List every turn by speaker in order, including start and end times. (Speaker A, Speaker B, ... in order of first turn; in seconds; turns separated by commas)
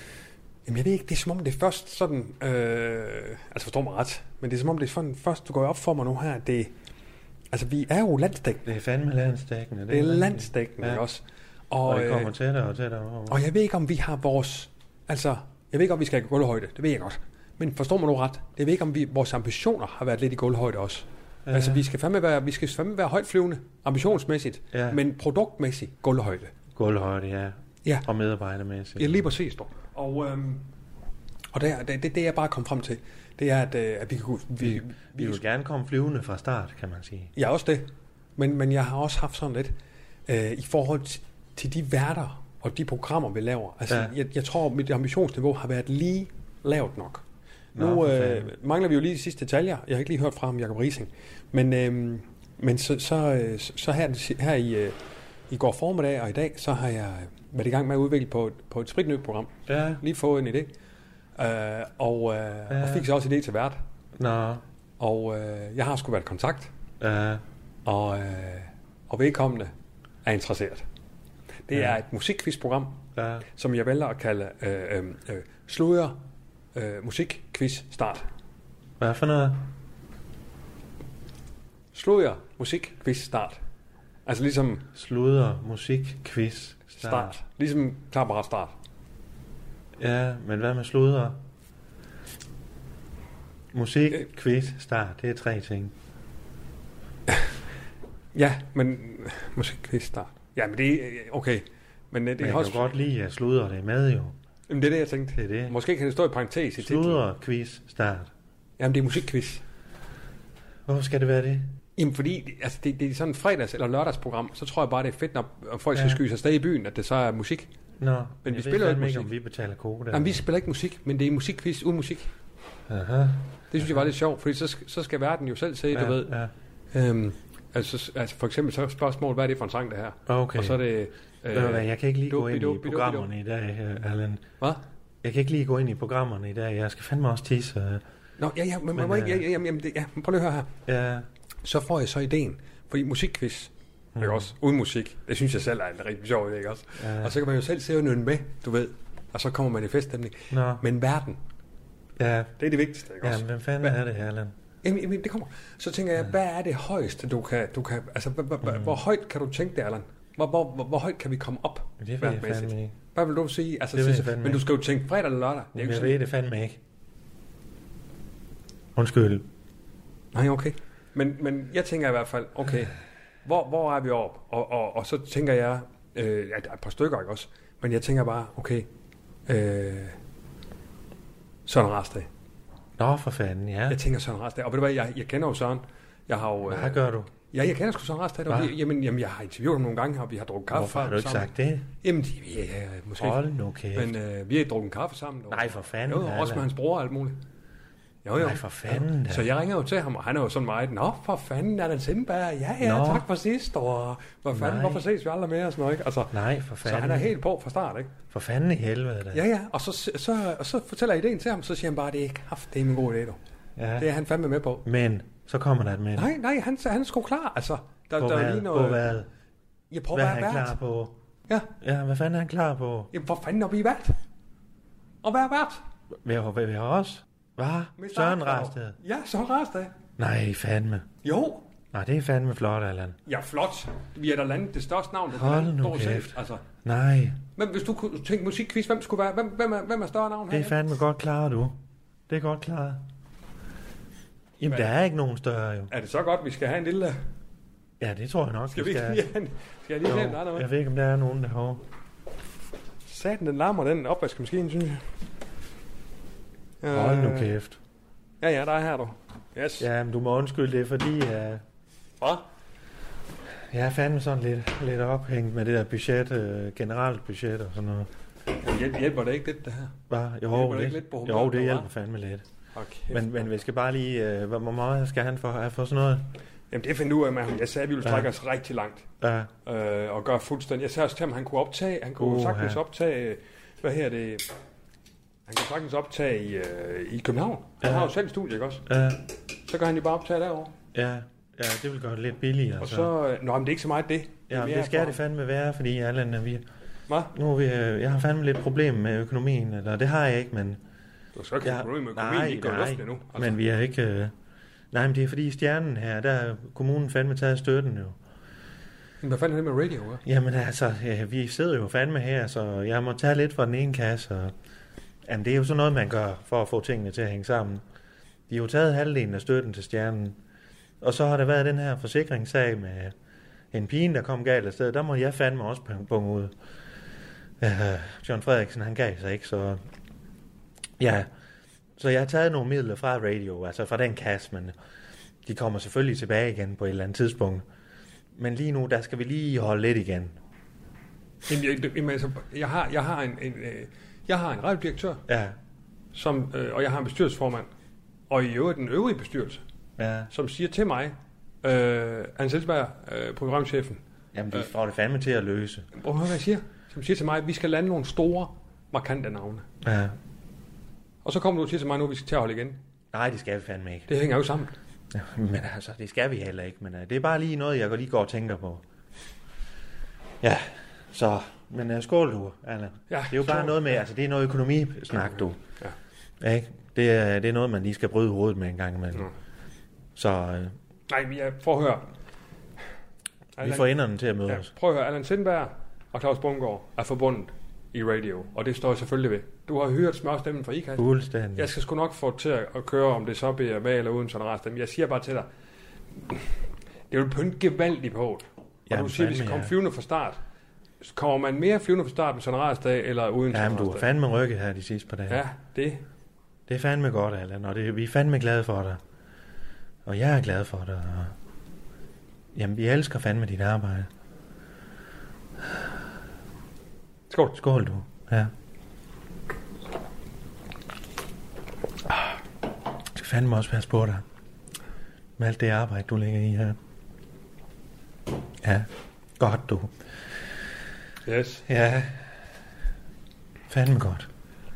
Speaker A: 0.7-6.7, Speaker A: 7.5-8.6, Speaker B: 8.7-11.0, Speaker A: 9.9-12.3, Speaker B: 11.9-13.4, Speaker A: 13.3-26.5, Speaker B: 21.5-21.8, Speaker B: 24.7-25.0, Speaker B: 26.8-29.3, Speaker A: 29.0-30.7, Speaker A: 31.5-35.4, Speaker B: 34.6-37.3, Speaker A: 37.4-39.7, Speaker A: 40.3-47.2, Speaker B: 47.8-48.5, Speaker A: 47.8-55.0, Speaker A: 55.5-60.7, Speaker B: 59.7-60.0, Speaker A: 61.4-63.8, Speaker B: 62.7-63.1, Speaker B: 64.2-64.6, Speaker A: 65.0-66.7, Speaker B: 67.0-67.4, Speaker A: 67.8-69.7, Speaker A: 70.2-70.8, Speaker A: 71.7-73.0, Speaker B: 71.7-72.0, Speaker B: 73.2-73.5, Speaker A: 73.6-76.2, Speaker A: 76.8-78.3, Speaker B: 79.0-79.7, Speaker A: 81.9-83.6, Speaker A: 84.3-84.9, Speaker B: 84.9-87.4, Speaker A: 87.0-88.7, Speaker B: 90.0-91.4, Speaker B: 93.7-95.9, Speaker A: 98.3-102.9, Speaker B: 102.4-104.3, Speaker A: 104.7-107.3, Speaker B: 105.3-105.8, Speaker B: 106.8-108.3, Speaker A: 108.8-109.6, Speaker B: 110.9-111.7, Speaker A: 112.0-117.7, Speaker B: 115.9-116.2, Speaker B: 118.0-120.4, Speaker A: 118.5-119.3, Speaker A: 120.1-122.3, Speaker B: 122.9-124.0, Speaker A: 123.7-126.3, Speaker B: 125.9-126.5, Speaker A: 126.9-133.3, Speaker B: 130.3-130.8, Speaker B: 131.5-134.5, Speaker B: 135.2-138.0, Speaker A: 138.4-140.7, Speaker B: 138.9-139.4, Speaker B: 140.9-141.3, Speaker A: 141.6-151.4, Speaker B: 144.2-144.5, Speaker B: 147.0-147.4, Speaker B: 150.5-150.8, Speaker B: 152.2-152.5, Speaker A: 152.6-154.0, Speaker B: 153.2-154.5, Speaker A: 154.8-166.2, Speaker B: 158.6-159.0, Speaker B: 162.0-162.9, Speaker B: 163.9-164.7, Speaker B: 165.7-166.8, Speaker B: 169.0-169.5, Speaker A: 170.3-178.9, Speaker A: 179.5-180.2, Speaker A: 181.7-182.3, Speaker B: 183.0-184.0, Speaker A: 183.9-191.5, Speaker B: 186.7-187.3, Speaker B: 188.5-188.8, Speaker B: 190.7-191.9, Speaker A: 192.0-193.4, Speaker B: 193.2-194.1, Speaker A: 193.9-197.4, Speaker B: 195.5-196.7, Speaker A: 198.2-208.1, Speaker B: 198.4-199.5, Speaker B: 202.8-203.3, Speaker B: 204.5-205.1, Speaker B: 206.3-207.3, Speaker B: 208.3-209.4, Speaker A: 209.3-213.4, Speaker B: 213.8-214.1, Speaker A: 214.0-214.8, Speaker B: 214.8-216.3, Speaker A: 216.2-219.2, Speaker B: 218.2-219.3, Speaker A: 219.9-220.8, Speaker B: 220.1-221.2, Speaker B: 221.8-223.1, Speaker A: 223.1-224.2, Speaker A: 225.2-225.8, Speaker B: 226.2-229.0, Speaker A: 228.0-229.9, Speaker B: 230.2-231.1, Speaker A: 231.2-231.7, Speaker B: 231.9-233.2, Speaker A: 233.3-236.7, Speaker B: 235.3-237.4, Speaker A: 237.6-240.8, Speaker B: 240.5-241.8, Speaker B: 242.3-243.1, Speaker B: 244.6-245.9, Speaker A: 244.7-244.9, Speaker A: 245.9-247.2, Speaker B: 248.0-249.3, Speaker A: 248.7-250.7, Speaker B: 250.1-251.8, Speaker A: 253.1-255.0, Speaker A: 256.8-257.6, Speaker B: 256.9-257.8, Speaker A: 258.4-259.9, Speaker B: 259.8-261.6, Speaker B: 263.7-268.1, Speaker A: 268.6-270.0, Speaker B: 270.1-272.4, Speaker A: 270.5-271.9, Speaker A: 272.8-273.5, Speaker B: 273.1-276.3, Speaker A: 276.7-279.1, Speaker B: 278.0-278.3, Speaker B: 279.2-279.5, Speaker A: 279.6-284.5, Speaker B: 282.2-282.8, Speaker A: 285.5-288.9, Speaker B: 287.8-288.1, Speaker B: 288.9-289.2, Speaker A: 289.7-290.8, Speaker B: 290.9-293.1, Speaker A: 292.8-295.2, Speaker B: 294.5-296.6, Speaker A: 297.1-297.3, Speaker B: 297.3-300.8, Speaker A: 301.4-303.6, Speaker B: 301.6-304.3, Speaker B: 304.9-308.2, Speaker A: 309.2-310.2, Speaker B: 310.2-314.5, Speaker B: 315.3-317.8, Speaker B: 318.5-320.4, Speaker B: 321.0-323.1, Speaker B: 323.7-326.5, Speaker B: 327.6-329.8, Speaker B: 331.0-331.3, Speaker B: 332.0-334.8, Speaker B: 335.4-337.6, Speaker B: 338.3-340.4, Speaker A: 341.5-345.2, Speaker B: 345.3-345.6, Speaker A: 346.1-347.7, Speaker A: 348.3-349.6, Speaker B: 350.0-350.3, Speaker A: 350.3-354.0, Speaker B: 354.3-355.9, Speaker A: 356.0-359.7, Speaker B: 359.8-360.2, Speaker A: 361.2-362.8, Speaker B: 363.1-364.1, Speaker A: 364.1-364.7, Speaker B: 365.1-368.8, Speaker B: 370.4-375.6, Speaker A: 373.1-374.0, Speaker B: 376.4-379.3, Speaker B: 380.2-380.8, Speaker A: 381.1-382.1, Speaker A: 383.6-383.9, Speaker B: 383.6-384.7, Speaker A: 384.5-395.5, Speaker B: 391.0-391.8, Speaker A: 397.1-400.4, Speaker B: 398.9-399.8, Speaker A: 401.0-404.1, Speaker B: 403.5-405.4, Speaker A: 405.3-406.0, Speaker B: 406.7-409.0, Speaker B: 410.1-411.4, Speaker B: 412.5-414.1, Speaker A: 417.3-417.6, Speaker B: 417.6-418.5, Speaker B: 423.1-424.2, Speaker B: 425.4-426.8, Speaker B: 428.6-428.9, Speaker B: 429.4-429.9, Speaker A: 431.3-431.6, Speaker B: 431.7-432.3, Speaker B: 433.7-434.3